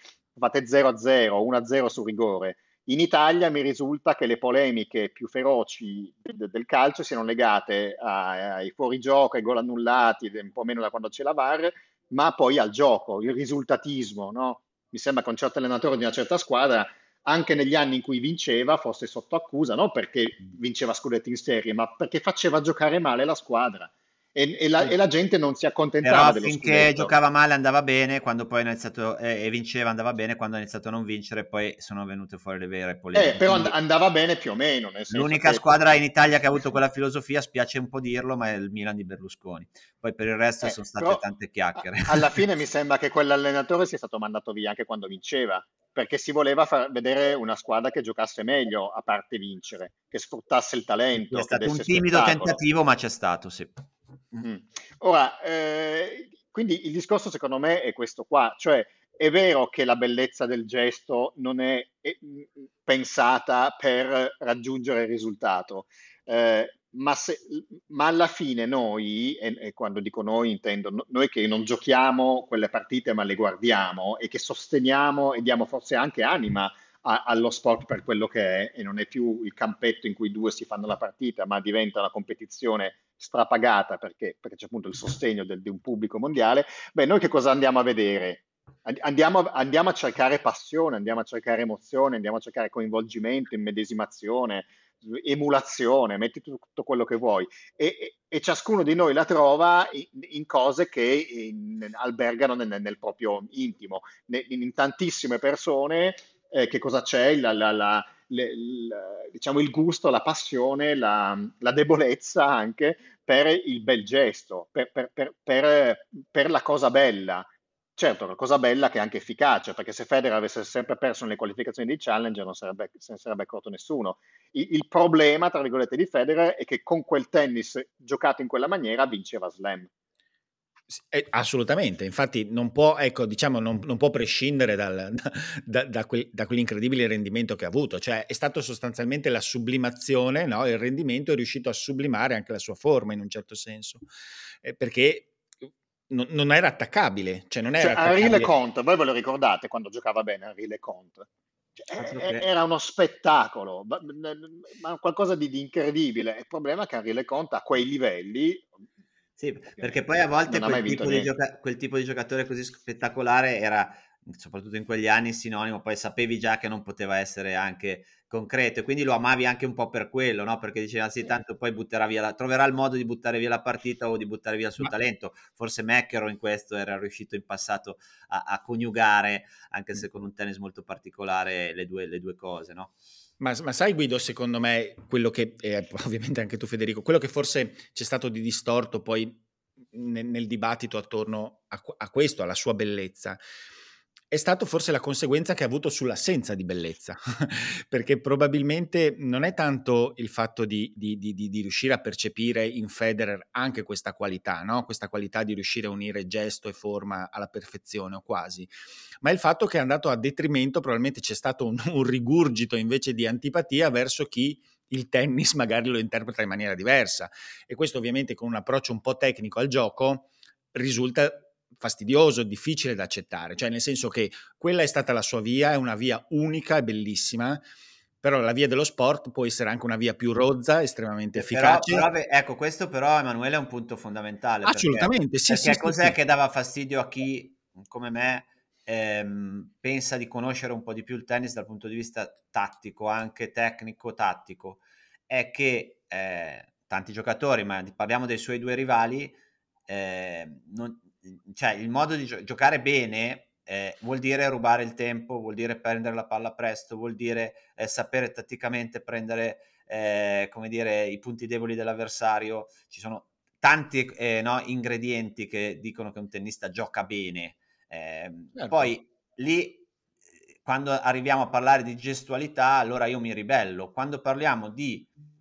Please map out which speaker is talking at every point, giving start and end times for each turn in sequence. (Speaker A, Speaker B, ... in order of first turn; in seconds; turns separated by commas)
Speaker A: 0.4-27.1, Speaker B: 26.0-33.7, Speaker A: 33.1-36.0, Speaker B: 35.1-42.4, Speaker A: 40.6-41.2, Speaker A: 41.8-52.6, Speaker B: 51.2-53.8, Speaker A: 54.4-129.9, Speaker C: 130.9-144.1, Speaker C: 144.6-145.3, Speaker C: 146.1-148.5, Speaker A: 147.7-151.3, Speaker A: 151.8-158.7, Speaker B: 152.0-152.5, Speaker B: 159.4-182.9, Speaker A: 159.8-161.3, Speaker C: 183.4-193.4, Speaker C: 194.3-208.7, Speaker C: 209.2-227.6, Speaker C: 228.2-232.1, Speaker B: 231.3-249.4, Speaker C: 234.7-236.2, Speaker B: 249.9-269.9, Speaker C: 268.6-268.9, Speaker B: 270.6-275.1